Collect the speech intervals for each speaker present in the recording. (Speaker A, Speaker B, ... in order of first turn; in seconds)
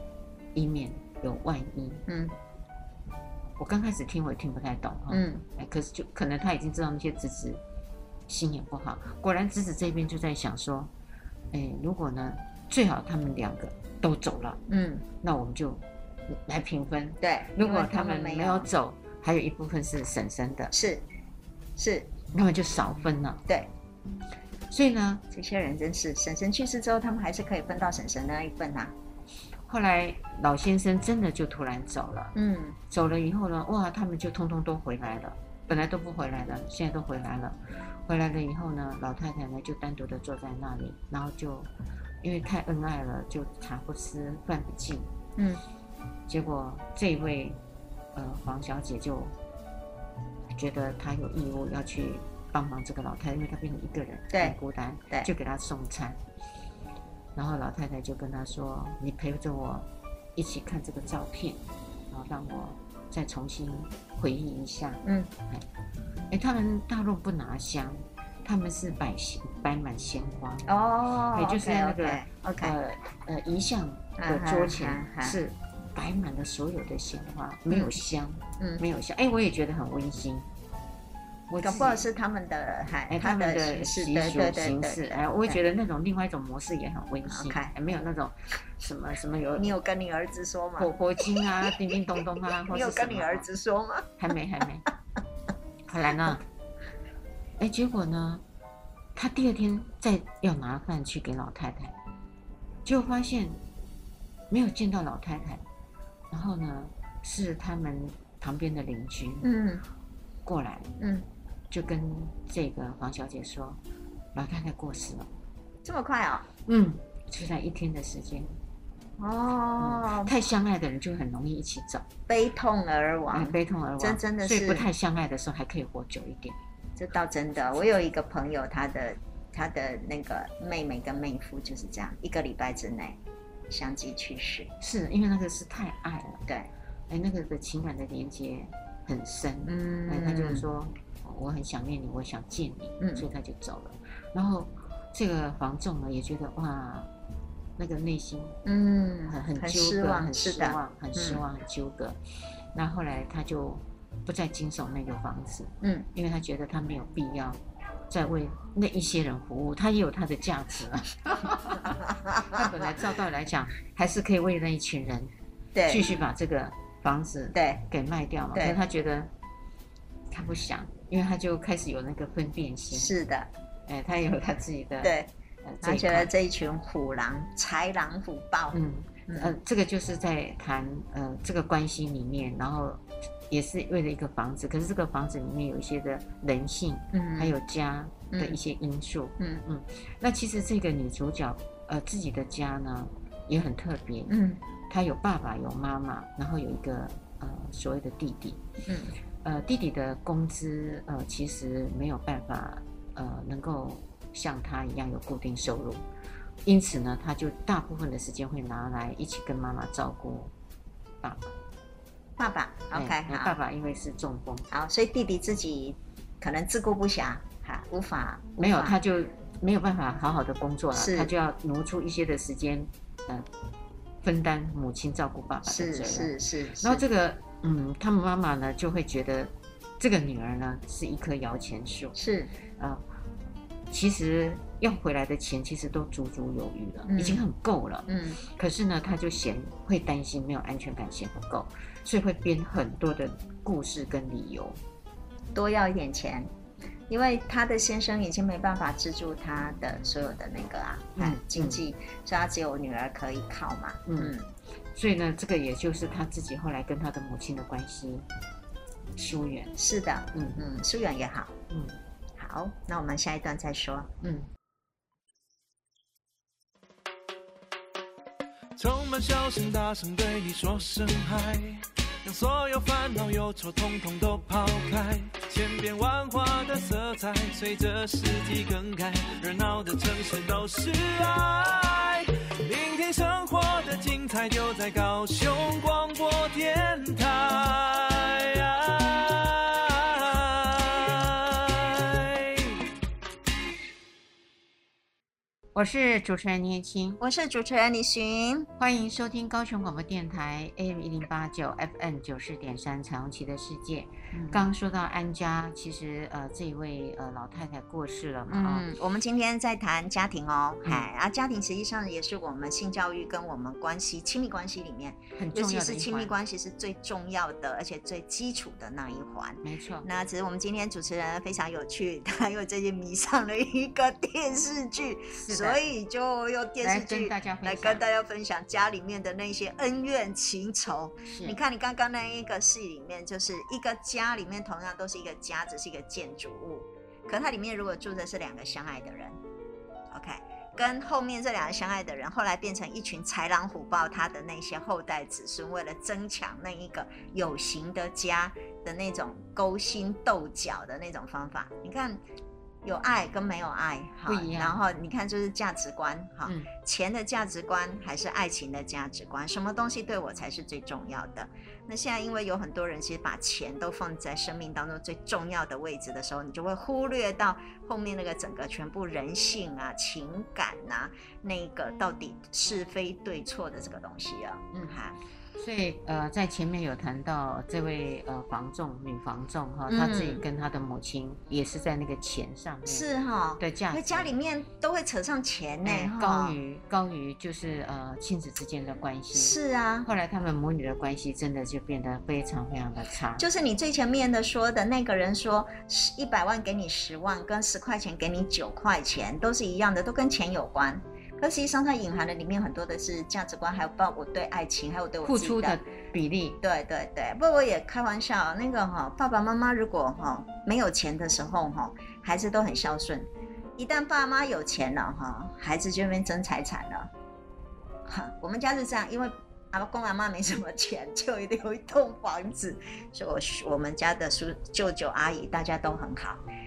Speaker A: 0.6-2.1, 3.6-7.6, 8.3-10.9, 11.5-14.6, 15.2-20.7, 22.3-23.4, 24.7-25.2, 29.7-32.4, 32.9-41.7, 42.2-45.1, 46.3-47.6, 48.1-49.3, 50.5-56.2, 57.4-65.7, 66.3-70.7, 71.3-80.5, 81.5-82.0, 83.1-89.8, 90.8-93.5, 94.2-94.9, 95.9-96.4, 97.6-98.4, 99.2-102.0, 102.8-103.6, 104.5-105.6, 106.3-109.5, 110.5-110.9, 111.7-113.8, 114.3-115.3, 116.7-118.5, 119.8-122.1, 123.3-126.6, 134.8-136.4, 137.1-147.1, 147.8-148.6, 149.3-152.2, 152.7-165.3, 165.9-169.3, 170.3-173.1, 173.9-176.3, 178.7-194.4, 194.9-198.6, 199.4-206.0, 206.7-210.5, 211.2-211.5, 212.9-214.7, 218.6-223.5, 224.2-232.2, 233.9-244.8, 251.2-251.8, 254.1-254.3, 254.9-258.3, 259.2-259.8, 260.3-260.6, 261.7-262.0, 264.2-264.5, 295.8-297.2, 298.8-308.9, 315.4-316.4, 319.6-320.1, 325.3-325.8, 326.8-328.0, 331.3-331.6, 354.3-354.8, 356.5-356.7, 374.7-375.0, 375.6-383.1, 383.6-384.3, 385.9-393.5, 405.2-406.6
Speaker B: 2.1-2.4, 5.1-5.4, 14.7-15.1, 17.2-18.7, 20.7-21.0, 21.8-22.1, 25.3-28.9, 32.4-32.8, 45.4-45.6, 54.3-54.6, 65.0-65.3, 70.7-72.8, 74.2-75.4, 81.6-85.6, 87.3-87.7, 89.6-91.9, 92.7-94.1, 109.4-109.8, 111.0-111.2, 115.8-116.5, 119.2-120.3, 122.3-124.9, 127.0-133.2, 133.7-134.7, 139.7-140.6, 143.0-143.2, 148.7-151.4, 162.1-162.8, 165.8-166.1, 167.5-167.8, 172.9-173.5, 175.0-175.3, 175.8-178.8, 179.3-179.6, 187.1-187.6, 188.3-188.6, 194.3-194.6, 198.9-199.1, 212.4-213.6, 214.7-219.0, 220.9-221.3, 225.7-227.1, 232.2-232.5, 237.1-237.4, 238.1-238.4, 245.5-246.5, 247.1-254.5, 259.8-261.6, 262.4-264.1, 297.2-298.7, 304.3-304.7, 308.5-339.4, 340.1-352.2, 352.8-375.2, 379.9-380.4, 382.9-386.6, 389.3-390.1, 393.4-405.8, 406.6-417.1, 418.1-426.4
Speaker C: 268.8-292.8